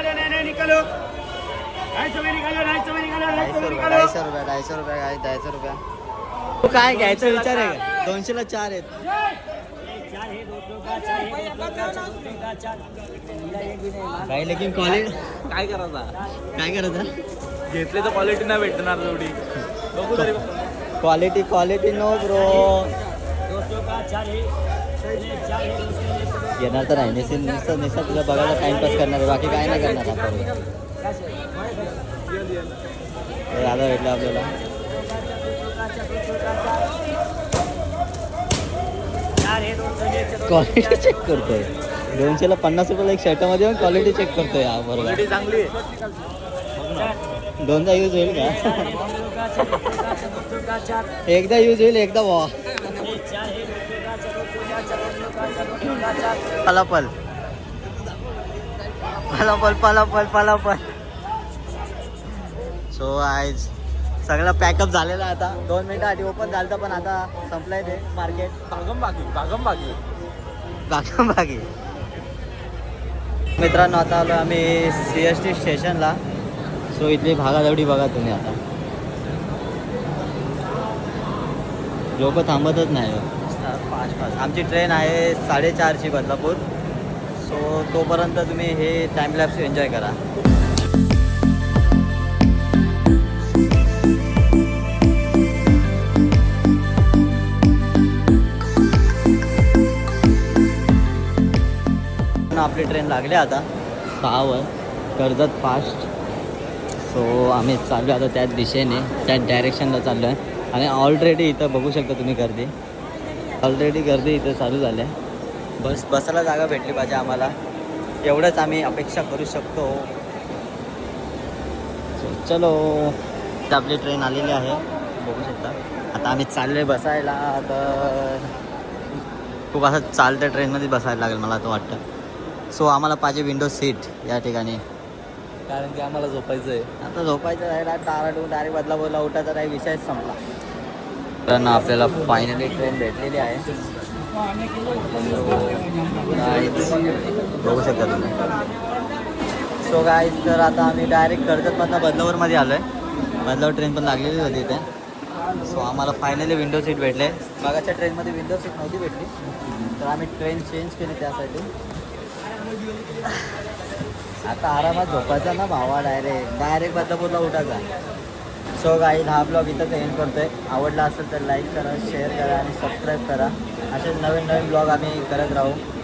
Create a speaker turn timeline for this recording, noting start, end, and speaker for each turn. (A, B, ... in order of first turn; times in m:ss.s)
0:03.2-0:05.8 A
0:06.6-0:08.9 A
0:11.4-0:12.5 B
0:14.2-0:15.4 A
0:15.4-0:16.2 B
0:16.5-0:17.1 A
0:17.7-0:19.4 B
0:19.9-0:20.6 B
0:21.0-0:22.9 A
0:26.6-0:30.5 A
0:33.5-0:34.5 A
0:40.4-0:45.2 A
0:45.0-0:45.8 B
0:46.8-0:47.2 B
0:47.6-0:49.1 A
0:51.3-0:53.1 A
0:55.7-0:57.1 A
0:59.1-1:00.9 A
1:02.9-1:03.7 A
1:04.2-1:08.6 A
1:08.7-1:10.0 B
1:10.9-1:11.7 A
1:13.6-1:16.2 A
1:16.9-1:18.6 A
1:22.2-1:26.6 A
1:27.4-1:30.2 A
1:42.5-1:43.7 A
1:44.2-1:46.1 A
1:47.0-1:52.7 A
1:53.6-1:55.1 A
1:55.8-1:57.6 A
1:58.2-2:00.1 A
2:02.2-2:03.2 A
2:03.7-2:08.5 A
2:09.7-2:12.0 A
2:12.7-2:14.8 A
2:15.7-2:16.9 B
2:17.0-2:20.4 A
2:21.5-2:23.7 A
2:25.0-2:28.4 A
2:29.8-2:32.9 A
2:33.4-2:34.8 A
2:35.6-2:39.3 A
2:40.0-2:41.7 A
2:44.5-2:47.9 A
2:48.8-2:55.8 A